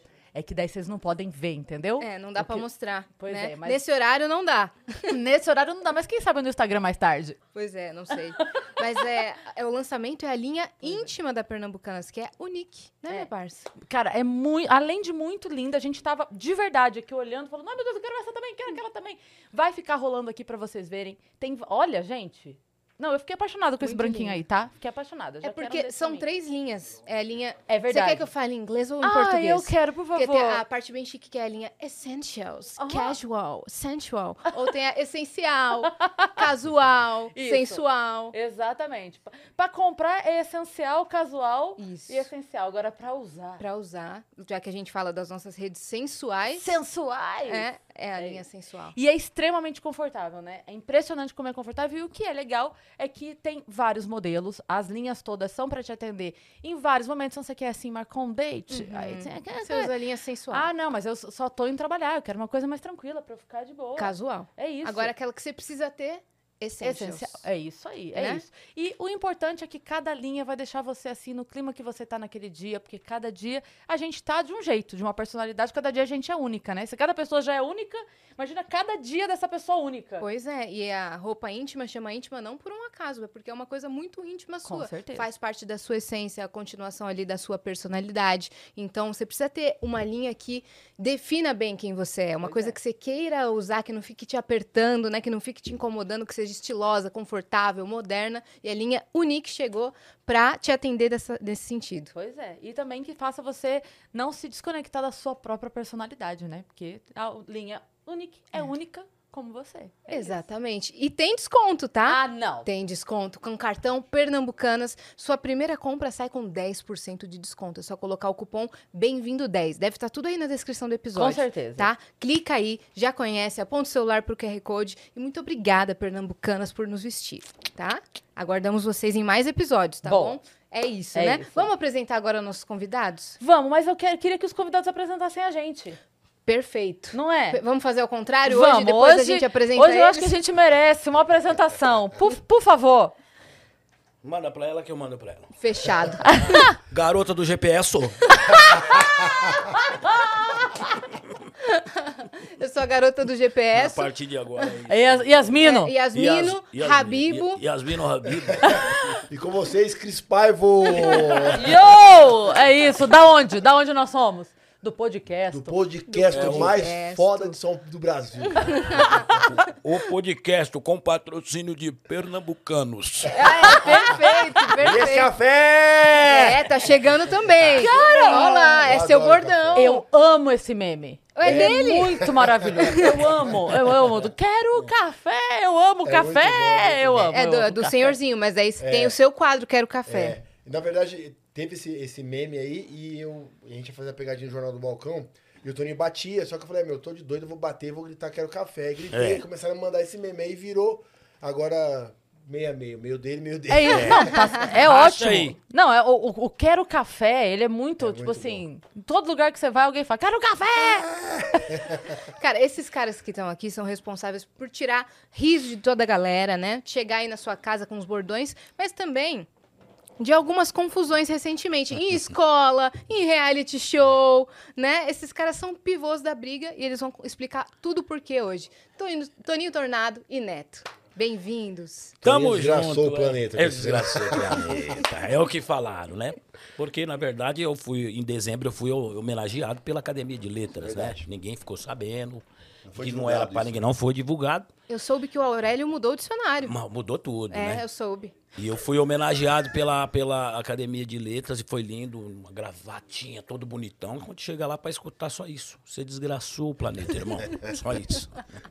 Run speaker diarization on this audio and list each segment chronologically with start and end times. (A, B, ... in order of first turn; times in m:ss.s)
0:00.3-0:03.8 A
0:02.0-0:05.2 B
0:05.1-0:07.4 A
0:07.5-0:13.7 B
0:13.8-0:26.3 A
0:23.8-0:24.4 B
0:25.4-0:38.3 B
0:27.7-0:28.2 A
0:29.0-0:30.6 A
0:32.8-0:33.2 A
0:36.1-0:36.4 A
0:37.3-0:43.6 A
0:41.8-0:42.3 B
0:43.6-0:46.7 B
0:46.5-0:48.4 A
0:47.5-0:48.9 B
0:48.9-0:59.9 A
0:58.7-1:00.7 B
1:00.5-1:05.1 A
1:04.0-1:07.4 B
1:06.8-1:20.2 A
1:08.2-1:08.4 B
1:20.2-1:42.1 B
1:24.6-1:25.2 A
1:32.4-1:32.8 A
1:42.1-1:50.4 A
1:50.1-2:13.4 B
1:52.0-1:52.7 A
2:01.1-2:01.9 A
2:10.0-2:10.4 A
2:11.1-2:11.7 A
2:13.4-2:16.0 A
2:16.4-2:20.4 B
2:17.1-2:17.6 A
2:18.4-2:23.1 A
2:24.2-2:25.5 C
2:25.6-2:26.7 B
2:26.2-2:26.7 A
2:26.8-2:28.3 C
2:29.9-2:30.6 A
2:31.6-2:34.1 B
2:33.7-2:35.5 C
2:34.9-2:35.9 A
2:35.6-2:37.6 B
2:36.1-2:39.1 C
2:38.5-2:41.8 D
2:41.0-2:45.8 A
2:45.5-2:49.0 D
2:46.1-2:47.6 B
2:46.3-2:46.8 C
2:48.6-2:49.1 B
2:49.4-2:53.8 C
2:53.3-2:55.3 B
2:53.4-2:54.2 A
2:54.8-2:56.8 D
2:56.2-3:00.0 B
2:57.8-2:58.8 A
2:58.3-2:59.9 D
2:59.7-3:08.1 A
3:01.4-3:02.2 B
3:01.4-3:04.0 D
3:02.8-3:03.2 B
3:06.0-3:07.3 D
3:07.3-3:10.4 B
3:08.8-3:09.2 D
3:10.0-3:24.4 D
3:19.1-3:19.4 C
3:23.7-3:31.8 A
3:23.9-3:25.5 C
3:28.0-3:28.6 D
3:31.1-3:32.0 D
3:32.4-3:39.5 B
3:40.2-3:52.2 B
3:52.2-3:55.0 D
3:52.2-4:04.7 C
4:00.8-4:01.3 D
4:02.8-4:03.8 D
4:04.9-4:06.7 B
4:06.6-4:07.8 C
4:07.5-4:08.4 B
4:08.5-4:18.4 C